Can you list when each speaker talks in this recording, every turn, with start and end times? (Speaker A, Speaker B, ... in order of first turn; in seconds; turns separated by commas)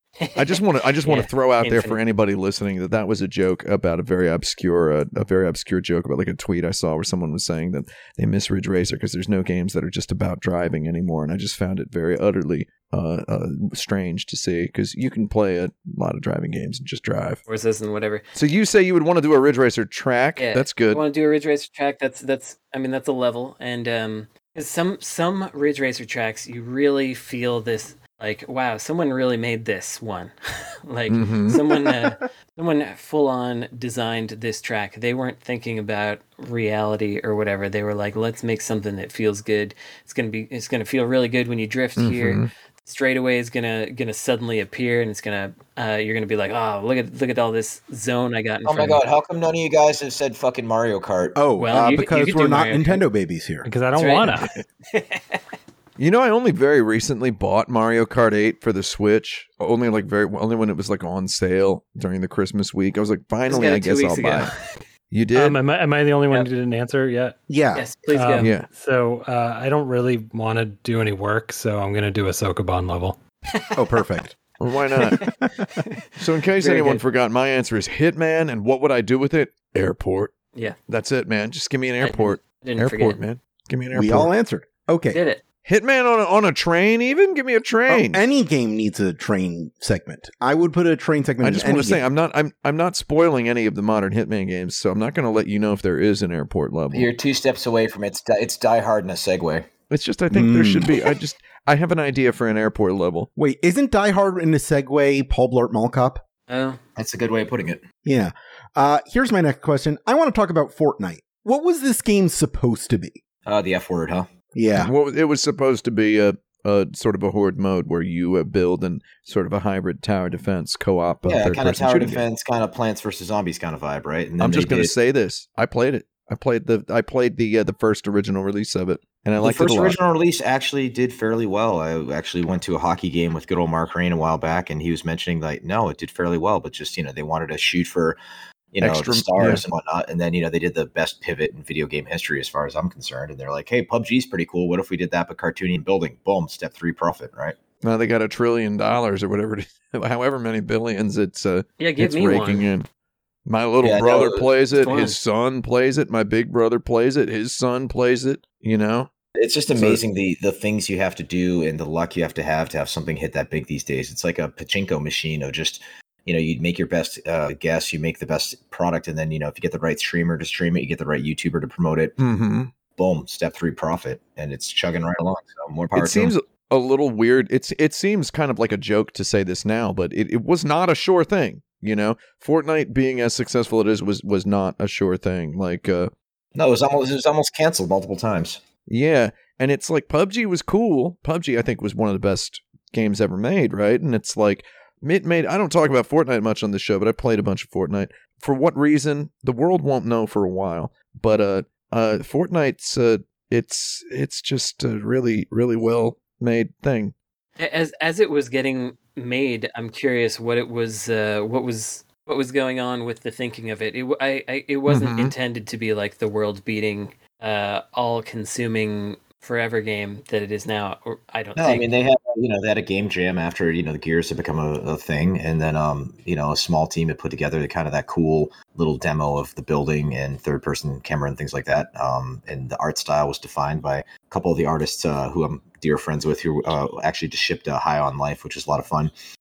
Speaker A: 0.2-2.0, Speaker B: 0.3-17.4, Speaker A: 17.5-18.2, Speaker B: 18.3-21.0, Speaker A: 20.4-49.0, Speaker B: 31.1-31.6, Speaker B: 42.0-42.5, Speaker C: 48.6-51.4, Speaker D: 51.3-53.7, Speaker A: 51.6-53.0, Speaker E: 53.6-54.5, Speaker A: 54.0-55.4, Speaker B: 56.0-64.5, Speaker A: 63.5-64.8, Speaker B: 65.1-65.6, Speaker E: 65.3-67.4, Speaker D: 67.5-67.8, Speaker A: 67.7-68.5, Speaker E: 68.1-73.2, Speaker B: 68.4-68.7, Speaker D: 73.8-74.3, Speaker B: 74.6-75.2, Speaker A: 75.1-76.1, Speaker B: 76.2-80.3, Speaker A: 76.6-77.0, Speaker B: 80.9-84.3, Speaker A: 82.0-83.2, Speaker D: 83.9-85.2, Speaker A: 85.1-85.4, Speaker B: 85.6-88.2, Speaker D: 87.9-92.0, Speaker B: 91.4-97.1, Speaker C: 96.9-99.7, Speaker B: 99.9-103.3, Speaker D: 100.3-101.1, Speaker D: 103.3-106.2, Speaker A: 106.5-106.8, Speaker C: 107.0-107.8, Speaker D: 108.0-113.2, Speaker C: 113.5-114.3, Speaker D: 114.5-114.9, Speaker B: 114.7-122.2, Speaker C: 121.2-124.9, Speaker B: 124.4-130.0, Speaker C: 129.4-138.2, Speaker C: 138.7-147.6, Speaker B: 138.8-139.6, Speaker B: 147.8-152.9, Speaker A: 151.8-152.7, Speaker B: 153.4-159.1, Speaker C: 153.8-154.5, Speaker A: 154.7-155.2, Speaker C: 159.3-172.2, Speaker B: 159.7-160.0, Speaker B: 172.2-172.7, Speaker C: 172.9-176.3, Speaker B: 175.9-186.1, Speaker C: 186.5-188.6, Speaker B: 188.9-207.1, Speaker A: 207.6-221.9, Speaker B: 214.9-215.3, Speaker C: 221.6-239.1